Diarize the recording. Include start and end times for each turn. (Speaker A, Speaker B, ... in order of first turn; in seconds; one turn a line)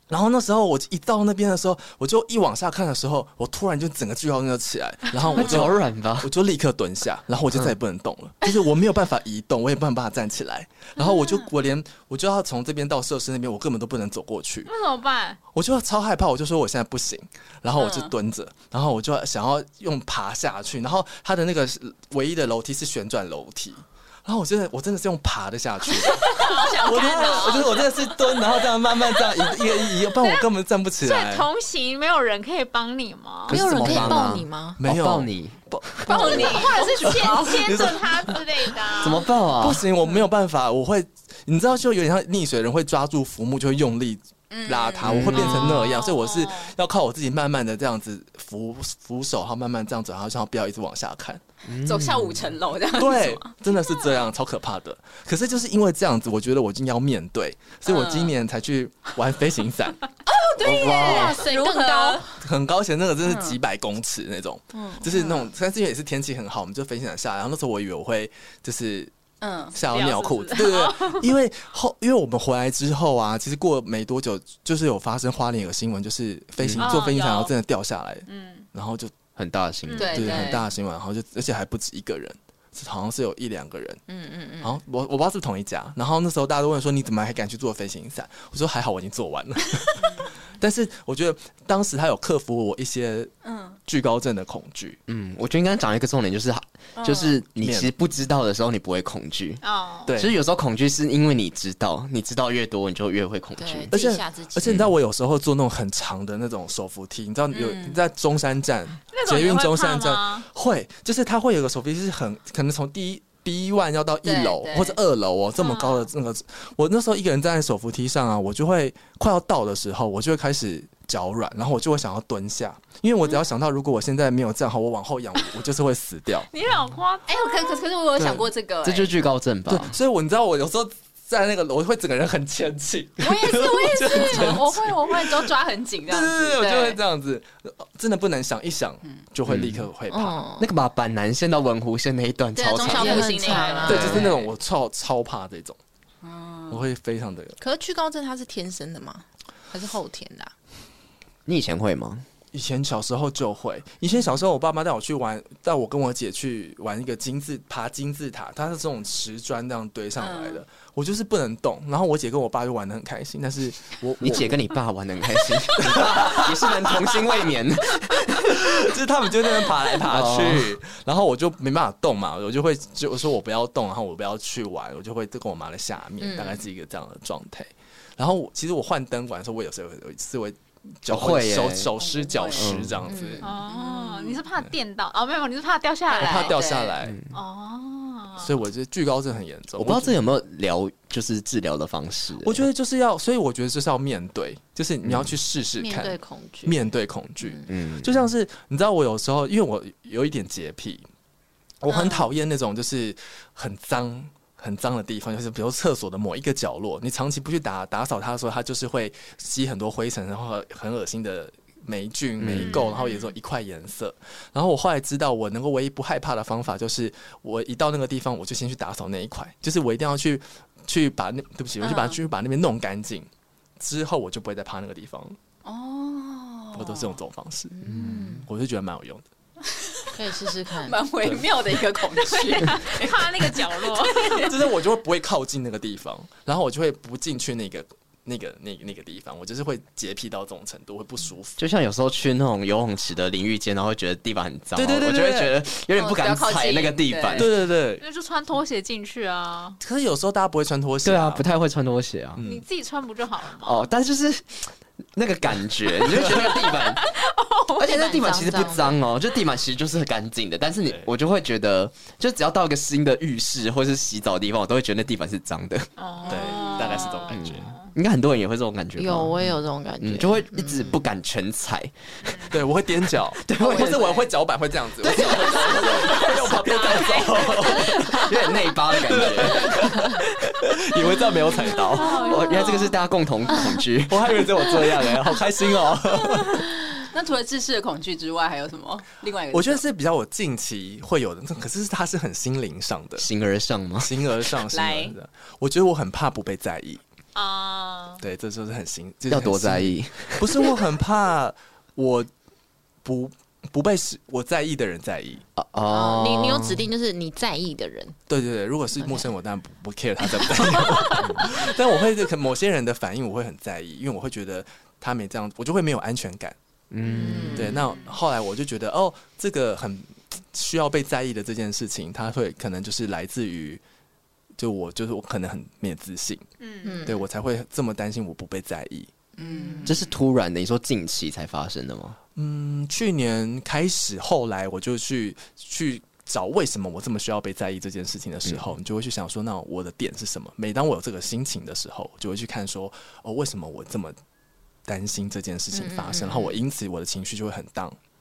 Speaker A: 0.1-14.7
Speaker B: 5.3-6.3
Speaker C: 14.7-15.4
Speaker A: 15.5-31.5
Speaker D: 17.8-18.1
Speaker C: 26.0-27.9
Speaker D: 26.2-27.7
Speaker C: 29.2-30.5
Speaker C: 31.0-33.5
Speaker B: 33.5-35.6
Speaker E: 33.5-34.8
Speaker A: 33.5-51.4
Speaker C: 36.1-39.3
Speaker D: 36.1-37.8
Speaker B: 39.0-39.8
Speaker D: 44.5-45.6
Speaker B: 45.0-45.9
Speaker C: 45.3-46.7
Speaker B: 51.7-52.5
Speaker D: 51.8-53.6
Speaker A: 52.9-60.0
Speaker D: 57.9-58.3
Speaker D: 60.3-62.2
Speaker B: 60.6-61.4
Speaker C: 60.8-62.2
Speaker E: 61.0-62.2
Speaker A: 62.4-69.1
Speaker D: 63.2-63.6
Speaker E: 64.7-65.2
Speaker D: 69.4-69.8
Speaker A: 69.7-79.1
Speaker C: 69.8-71.3
Speaker B: 76.6-77.0
Speaker C: 76.8-77.5
Speaker C: 78.3-78.7
Speaker B: 79.4-80.5
Speaker C: 79.9-80.4
Speaker D: 80.0-80.6
Speaker A: 80.1-84.0
Speaker E: 84.1-84.8
Speaker A: 84.6-93.3
Speaker D: 90.0-90.3
Speaker D: 93.4-93.8
Speaker A: 93.9-95.0
Speaker B: 95.1-103.9
Speaker E: 97.0-97.3
Speaker A: 97.5-97.9
Speaker C: 99.6-100.1
Speaker A: 100.1-100.4
Speaker E: 103.6-104.8
Speaker A: 103.9-126.5
Speaker B: 104.6-104.9
Speaker D: 107.5-108.0
Speaker C: 109.1-110.5
Speaker D: 114.2-115.0
Speaker C: 115.6-116.1
Speaker C: 126.5-127.8
Speaker D: 127.3-129.2
Speaker A: 128.2-128.5
Speaker B: 128.8-129.9
Speaker A: 129.7-135.5
Speaker D: 133.2-137.0
Speaker A: 136.1-140.4
Speaker B: 139.5-139.9
Speaker E: 140.1-140.7
Speaker B: 140.6-144.2
Speaker D: 142.6-144.5
Speaker E: 142.8-144.3
Speaker A: 143.8-145.8
Speaker D: 146.2-146.9
Speaker A: 146.7-147.6
Speaker E: 147.6-150.5
Speaker B: 151.5-152.2
Speaker A: 152.5-164.6
Speaker D: 160.2-160.6
Speaker B: 164.2-168.6
Speaker A: 165.8-167.2
Speaker A: 168.4-183.5
Speaker B: 170.0-170.7
Speaker E: 176.2-176.6
Speaker B: 181.1-181.9
Speaker D: 182.0-182.9
Speaker B: 182.6-183.0
Speaker E: 183.1-183.5
Speaker C: 183.4-186.6
Speaker D: 183.7-184.4
Speaker D: 186.1-187.0
Speaker A: 186.1-187.2
Speaker B: 187.0-187.4
Speaker C: 187.3-188.5
Speaker A: 188.4-190.2
Speaker B: 189.8-192.7
Speaker A: 192.4-201.1
Speaker B: 195.1-195.3
Speaker E: 195.8-196.8
Speaker E: 197.4-197.7
Speaker B: 197.7-198.2
Speaker A: 201.8-223.3
Speaker B: 212.4-212.8
Speaker C: 212.6-213.3
Speaker D: 221.8-222.2
Speaker A: 223.8-225.4
Speaker D: 225.7-227.2
Speaker A: 226.7-227.7
Speaker E: 227.7-228.5
Speaker B: 227.9-228.4
Speaker A: 228.4-229.2
Speaker E: 230.1-231.0
Speaker D: 230.8-234.5
Speaker C: 232.3-234.5
Speaker A: 234.4-241.6
Speaker B: 241.6-247.5
Speaker A: 244.8-245.6
Speaker D: 245.9-247.5
Speaker A: 247.3-248.0
Speaker C: 248.0-249.8
Speaker A: 249.8-251.4
Speaker B: 251.0-252.4
Speaker A: 252.4-252.6
Speaker C: 252.4-253.9
Speaker B: 253.6-257.1
Speaker A: 256.1-256.5
Speaker C: 256.3-258.0
Speaker B: 257.8-266.5
Speaker E: 257.8-259.0
Speaker A: 260.9-261.1
Speaker C: 266.0-267.9
Speaker A: 266.3-267.7
Speaker B: 267.3-269.4
Speaker E: 269.0-271.0
Speaker B: 270.0-271.9
Speaker C: 272.2-272.6
Speaker A: 272.5-278.4
Speaker B: 273.3-274.2
Speaker D: 273.9-274.2
Speaker B: 275.0-276.6
Speaker C: 275.4-278.5
Speaker B: 277.8-279.9
Speaker A: 279.0-282.4
Speaker C: 281.7-283.0
Speaker B: 282.2-284.2
Speaker A: 284.1-286.7
Speaker D: 287.1-289.8
Speaker A: 289.5-293.3
Speaker B: 293.2-294.1
Speaker A: 294.0-297.0
Speaker D: 294.7-295.2
Speaker C: 297.4-298.2
Speaker A: 298.2-302.3
Speaker B: 299.3-300.8
Speaker A: 303.0-305.4
Speaker B: 305.6-306.9
Speaker E: 305.9-308.2
Speaker A: 308.3-316.6
Speaker E: 309.0-309.3
Speaker E: 310.7-311.4
Speaker B: 311.2-311.5
Speaker B: 316.9-317.8
Speaker E: 317.1-317.7
Speaker A: 317.5-323.8
Speaker A: 324.6-326.5
Speaker C: 326.6-327.1
Speaker E: 326.8-327.2
Speaker A: 327.1-329.1
Speaker E: 329.4-330.0
Speaker D: 329.4-330.1
Speaker B: 329.9-332.2
Speaker A: 332.4-344.2
Speaker A: 344.9-348.0
Speaker E: 345.7-346.6